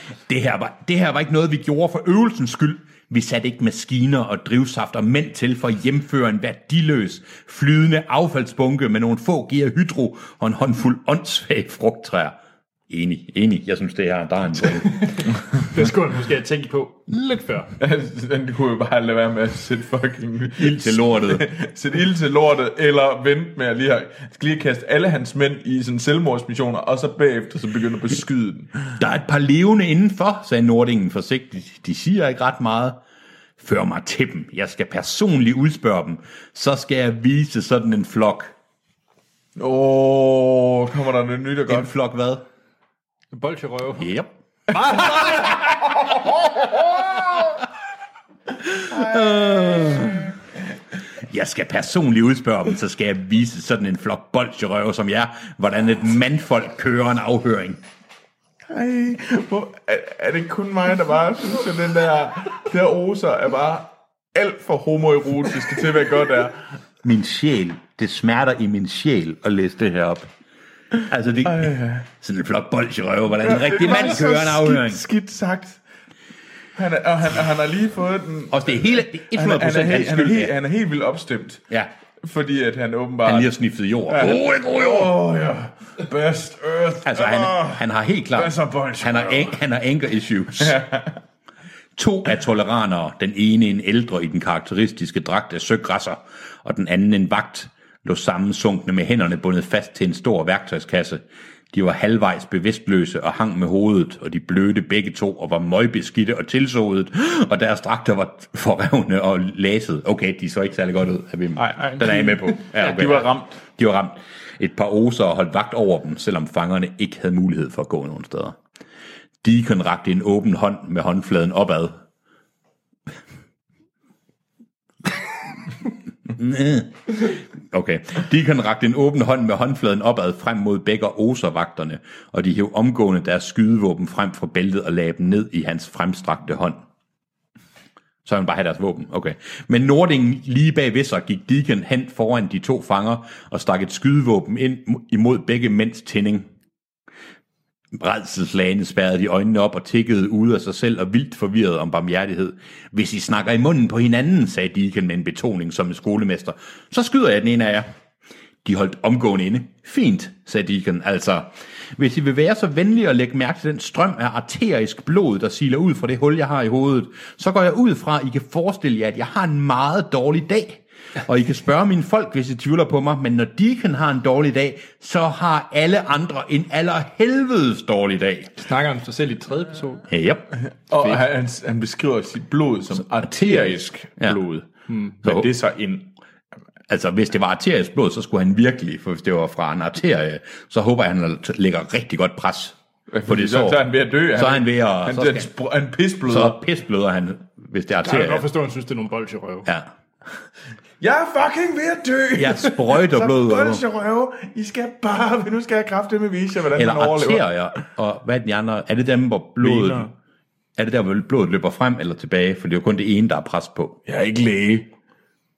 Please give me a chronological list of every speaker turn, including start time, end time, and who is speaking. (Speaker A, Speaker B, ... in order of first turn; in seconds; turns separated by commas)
Speaker A: 0.3-12.4, Speaker A: 12.9-15.0, Speaker B: 14.7-17.7, Speaker C: 17.8-28.7, Speaker A: 20.6-21.5, Speaker A: 29.0-33.0, Speaker A: 33.6-38.5, Speaker C: 39.6-41.9, Speaker A: 41.7-42.5, Speaker B: 43.3-44.1, Speaker A: 44.0-45.5, Speaker B: 44.7-45.6, Speaker A: 46.6-47.4, Speaker A: 48.7-50.3, Speaker A: 51.2-57.8, Speaker C: 58.7-66.7, Speaker A: 67.0-70.3, Speaker A: 71.0-75.0, Speaker C: 71.5-72.1, Speaker C: 73.4-75.8, Speaker C: 76.8-81.6, Speaker A: 78.5-80.5, Speaker C: 82.2-83.5, Speaker A: 83.2-85.1, Speaker C: 84.1-89.6, Speaker A: 87.0-90.8, Speaker C: 90.6-91.2, Speaker A: 92.0-118.6, Speaker C: 111.6-113.6, Speaker A: 119.4-122.0, Speaker A: 126.3-136.8, Speaker A: 138.2-146.5, Speaker A: 147.9-157.9, Speaker A: 158.6-178.6, Speaker B: 178.6-180.1, Speaker A: 180.1-180.4, Speaker C: 180.9-186.1, Speaker A: 183.3-184.4, Speaker A: 185.2-185.5, Speaker A: 186.9-193.8, Speaker C: 193.1-196.6, Speaker A: 194.3-195.5, Speaker A: 196.2-198.5, Speaker B: 198.0-199.7, Speaker A: 199.7-199.9, Speaker C: 201.0-207.5, Speaker A: 202.4-203.8, Speaker A: 206.7-210.1, Speaker C: 209.6-210.1, Speaker A: 210.8-214.0, Speaker C: 214.1-214.9